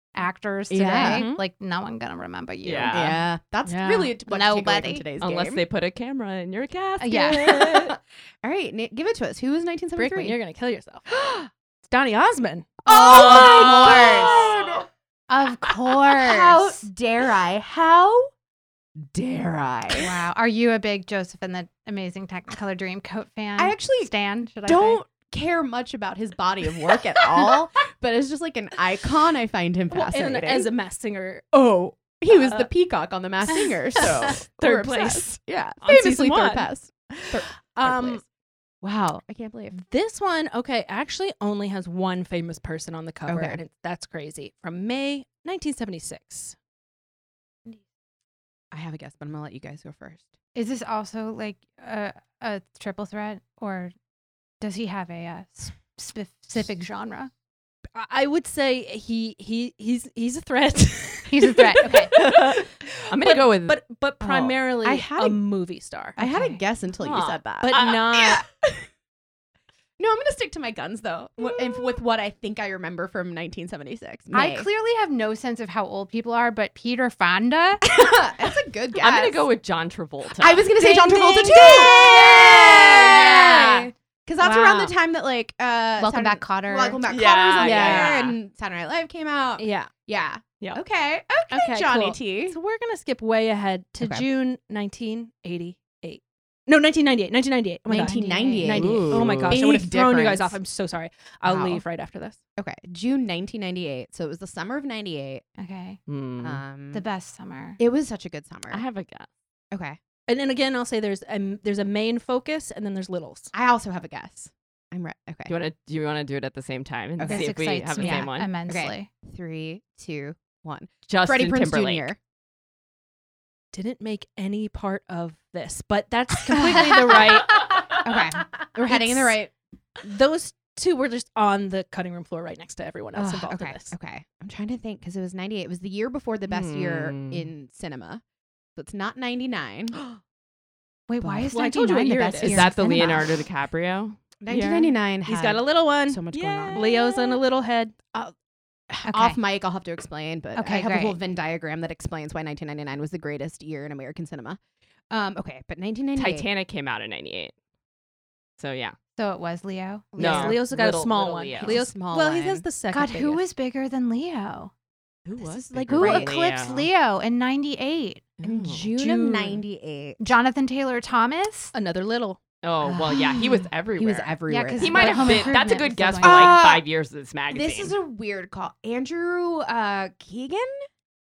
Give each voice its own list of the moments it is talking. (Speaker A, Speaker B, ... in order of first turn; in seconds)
Speaker A: 0.1-3.1, 4.2-5.0, 7.0-7.5, 12.9-14.3, 15.3-16.9, 19.9-25.0, 50.5-53.9, 54.6-57.3, 61.3-62.1, 66.2-66.6, 74.3-77.8, 81.2-81.9, 86.0-87.0, 97.9-98.8, 105.6-106.0, 106.9-107.8, 117.2-119.1, 141.1-143.3, 149.1-149.4, 150.6-151.2, 159.2-160.4, 162.9-164.7, 165.9-168.3, 170.2-171.7, 174.5-176.6
Speaker B: 0.7-1.2, 2.9-5.6, 7.4-10.4, 12.8-14.8, 16.1-18.3, 19.0-20.1, 23.6-24.1, 24.6-30.7, 31.5-38.2, 38.8-39.8, 43.3-43.6, 48.7-50.3, 64.2-65.5, 66.2-67.9, 70.0-74.7, 77.9-79.5, 80.3-92.6, 94.0-94.3, 97.9-100.6, 101.4-101.8, 102.6-105.4, 106.4-107.0, 107.8-108.8, 109.7-110.0, 113.5-115.5, 117.2-122.2, 126.5-127.2, 128.0-129.5, 133.1-138.2, 138.8-139.9, 141.2-141.5, 142.5-143.3, 144.4-147.4, 148.9-154.6, 155.1-156.5, 160.1-160.6, 161.6-162.7, 165.4-166.6, 168.4-170.3, 172.8-176.9, 177.5-180.8
Speaker C: 1.0-1.4, 3.6-4.1, 9.9-11.1, 11.8-12.8, 29.9-31.4, 32.3-32.7, 34.6-38.2, 39.7-46.5, 57.9-66.2, 67.6-68.4, 80.8-83.8, 84.4-84.9, 87.6-88.3, 89.6-89.9, 91.5-102.4, 110.3-113.5, 123.7-127.7, 128.9-129.4, 130.0-133.9, 141.5-142.6, 145.2-148.0, 160.2-163.4, 169.0-169.6, 171.7-172.4
Speaker D: 2.6-3.2, 5.2-8.0, 13.0-14.8, 62.1-64.5, 67.0-68.0, 79.0-80.8, 81.5-81.9, 87.1-88.3, 98.7-99.6, 106.0-106.6, 108.7-109.3, 115.5-118.6, 121.1-122.1, 136.5-137.5, 142.4-144.9, 146.3-146.8, 156.2-157.5, 158.6-158.9, 160.2-161.8, 165.2-166.9, 168.4-168.9, 172.6-177.9